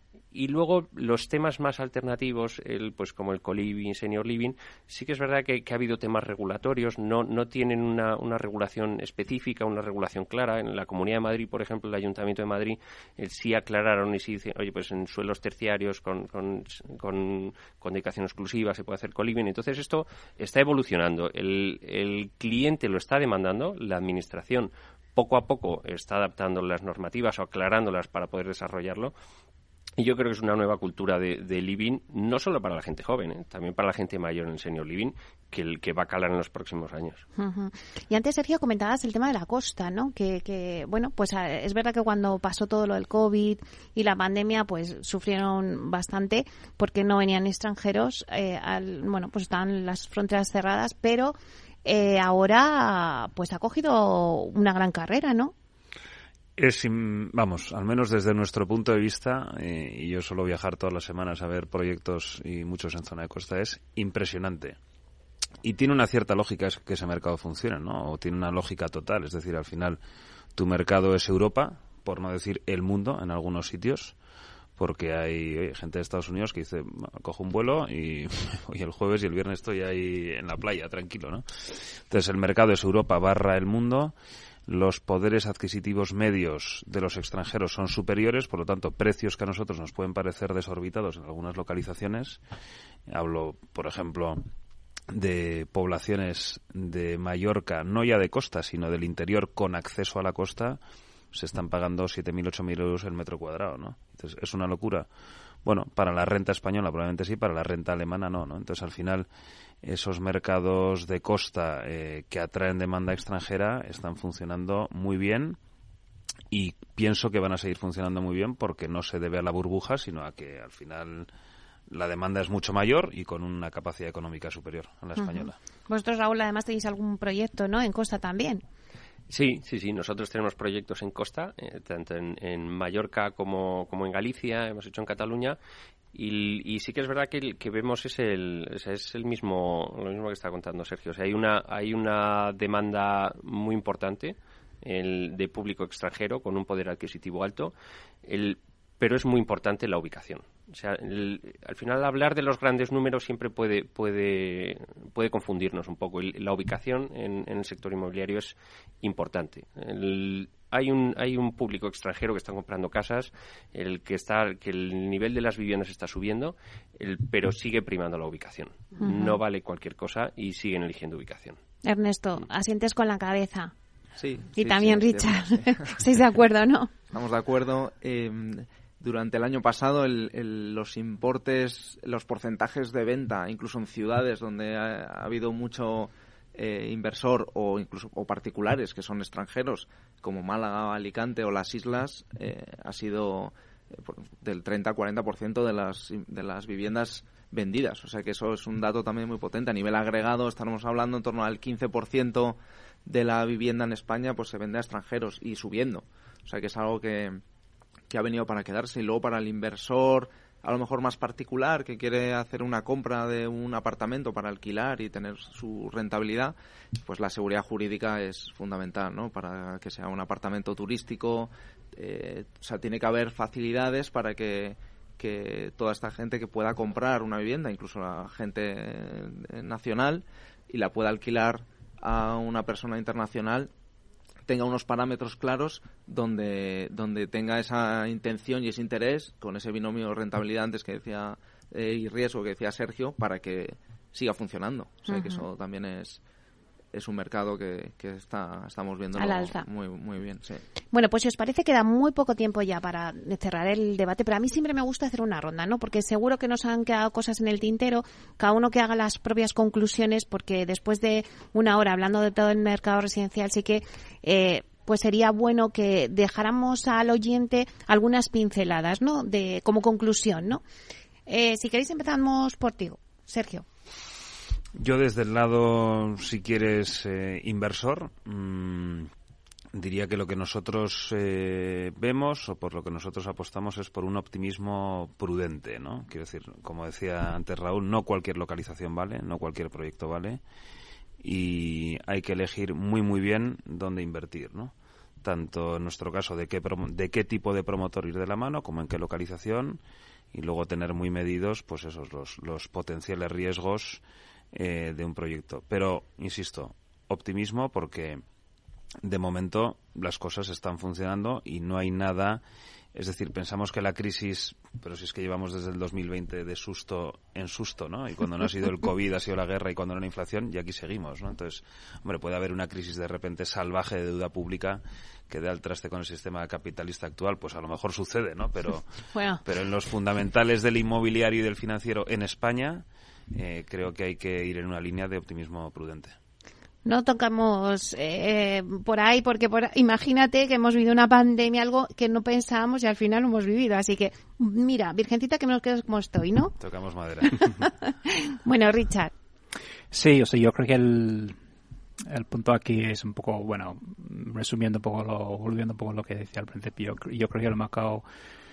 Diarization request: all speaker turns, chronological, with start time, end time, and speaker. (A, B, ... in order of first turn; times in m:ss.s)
0:00.3-0:29.1 A
0:30.0-0:37.2 A
0:37.4-0:55.5 B
0:56.6-1:04.8 C
1:05.6-1:10.0 C
1:10.5-1:14.1 C
1:14.8-1:24.1 C
1:24.7-1:32.4 C
1:33.1-1:34.4 C
1:35.1-1:40.8 C
1:41.3-1:45.1 C
1:45.6-1:49.3 C
1:49.8-1:55.6 C
1:56.5-2:01.3 C
2:01.9-2:05.6 C
2:05.2-2:08.6 B
2:09.3-2:15.6 A
2:16.1-2:27.7 A
2:28.2-2:51.6 A
2:49.0-2:49.4 B
2:51.8-2:53.7 B
2:54.2-2:56.0 D
2:54.6-2:57.0 B
2:57.1-3:27.4 D
3:28.1-3:53.7 D
3:54.4-4:06.2 D
4:05.1-4:05.4 B
4:06.9-4:10.6 D
4:09.2-4:09.6 B
4:10.9-4:30.6 B
4:31.3-4:33.6 B
4:34.7-4:39.1 C
4:39.7-4:50.4 C
4:51.2-4:59.8 C
5:00.3-5:04.0 C
5:04.5-5:08.2 C
5:09.0-5:12.4 C
5:12.9-5:28.9 C
5:29.1-5:29.4 B
5:29.4-5:36.2 C
5:36.8-5:46.5 B
5:46.6-5:47.7 C
5:47.9-5:49.1 B
5:49.9-5:51.4 E
5:52.1-5:58.0 E